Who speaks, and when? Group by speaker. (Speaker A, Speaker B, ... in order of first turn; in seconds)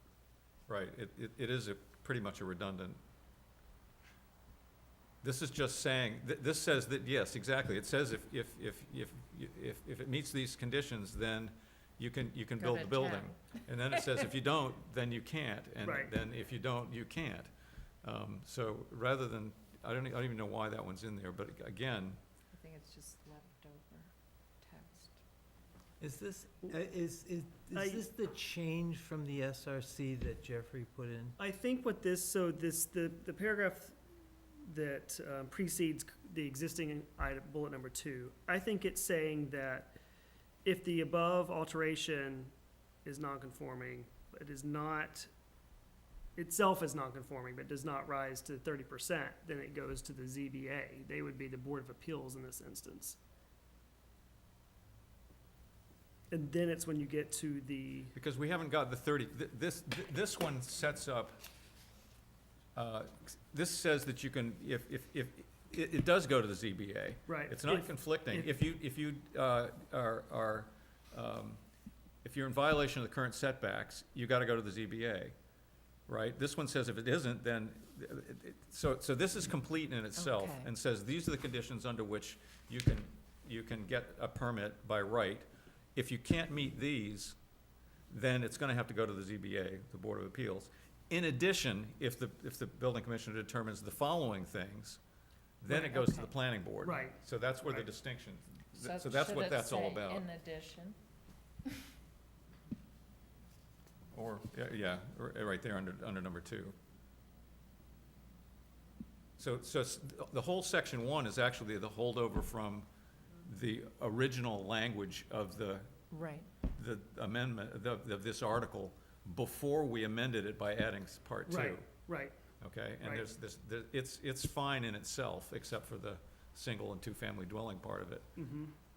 Speaker A: 0.7-3.0, 5.2-17.5, 18.0-22.2, 58.1-61.4, 62.8-71.6, 72.2-75.3, 76.1-87.4, 88.1-95.0, 95.6-100.3, 104.1-106.8, 109.4-112.9, 113.4-116.0, 116.7-121.9, 122.6-128.3
Speaker B: 12.6-14.2, 22.5-25.2, 80.2-80.7, 95.7-96.3, 98.8-101.0, 116.1-116.5
Speaker C: 15.8-16.1, 27.7-28.1, 31.4-40.0, 40.6-42.5, 43.0-45.3, 46.4-53.2, 56.3-58.1, 67.3-68.5, 96.8-97.9, 121.5-122.4, 128.4-128.7
Speaker D: 26.0-31.4